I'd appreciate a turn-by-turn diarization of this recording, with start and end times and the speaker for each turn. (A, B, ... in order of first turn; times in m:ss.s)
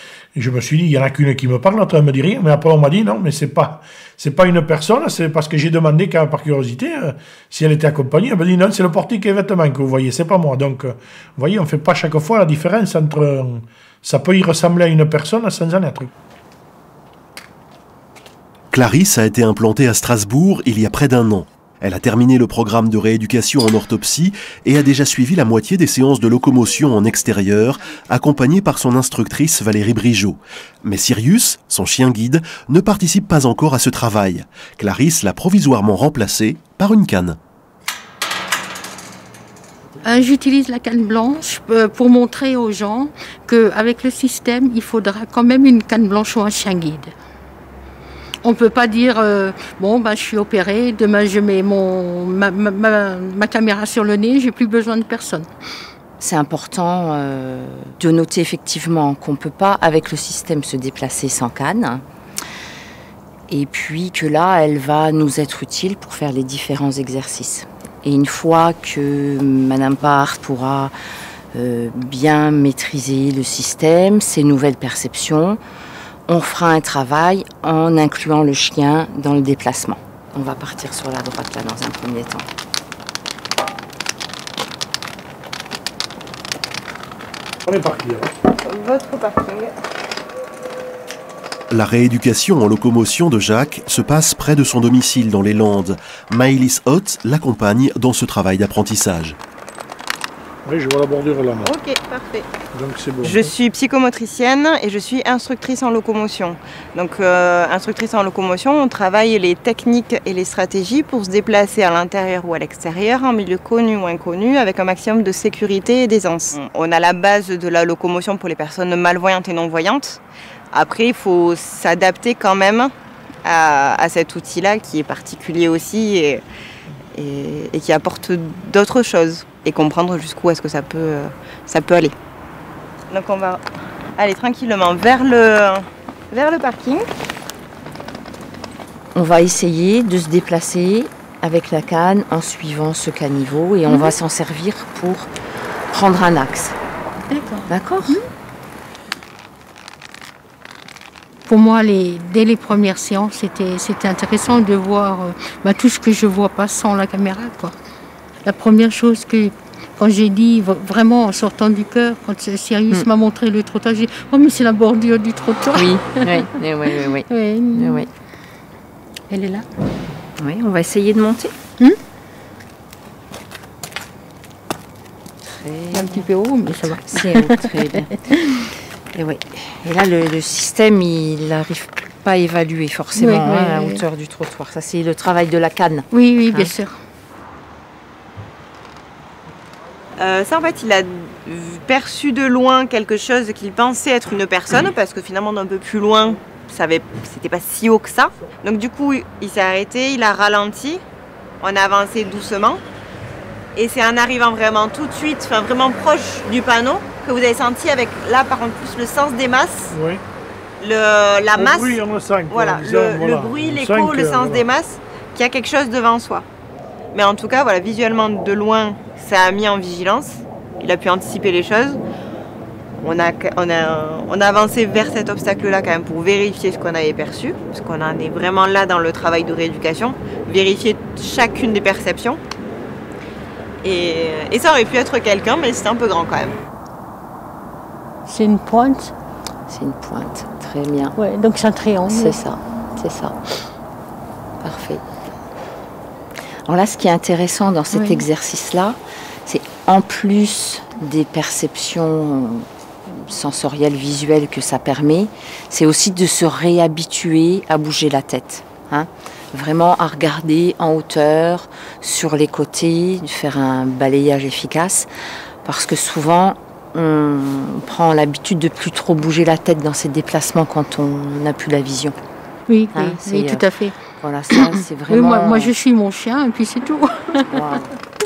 0:00.3-0:16.1 A
0:18.7-0:37.4 B
0:40.0-0:47.1 C
0:48.4-0:55.5 C
0:56.2-1:02.0 D
1:03.5-1:10.9 D
1:11.5-1:15.6 D
1:16.3-1:22.4 D
1:27.6-1:28.3 A
1:28.6-1:29.7 E
1:31.7-1:39.4 B
1:40.6-1:41.7 A
1:41.6-1:42.5 E
1:42.7-1:43.5 A
1:43.2-2:00.2 E
2:00.7-2:02.9 E
2:03.4-2:06.4 E
2:07.1-2:12.1 E
2:13.1-2:13.6 E
2:14.2-2:17.0 E
2:19.1-2:25.3 D
2:25.9-2:26.7 D
2:27.3-2:28.2 C
2:27.7-2:28.2 D
2:31.5-2:37.7 C
2:38.4-2:46.4 C
2:45.7-2:48.1 D
2:47.3-2:48.1 C
2:49.3-2:49.6 C
2:50.4-2:51.5 D
2:55.4-2:56.3 D
2:55.9-2:57.7 C
2:56.8-2:58.2 D
2:59.1-3:06.7 D
3:03.2-3:04.0 C
3:06.1-3:07.0 C
3:10.2-3:21.0 E
3:21.6-3:22.8 E
3:23.7-3:29.9 E
3:29.9-3:30.2 A
3:30.8-3:36.4 E
3:31.6-3:34.6 A
3:37.1-3:42.0 E
3:43.0-3:52.4 E
3:53.8-3:56.6 E
3:58.3-3:59.1 C
3:59.7-4:01.1 D
4:01.2-4:02.4 C
4:02.1-4:03.3 D
4:04.6-4:05.0 D
4:06.7-4:25.1 D
4:07.9-4:08.2 C
4:25.6-4:32.2 D
4:32.7-4:34.0 C
4:32.9-4:33.7 D
4:34.2-4:35.7 D
4:34.6-4:37.6 C
4:37.5-4:37.8 D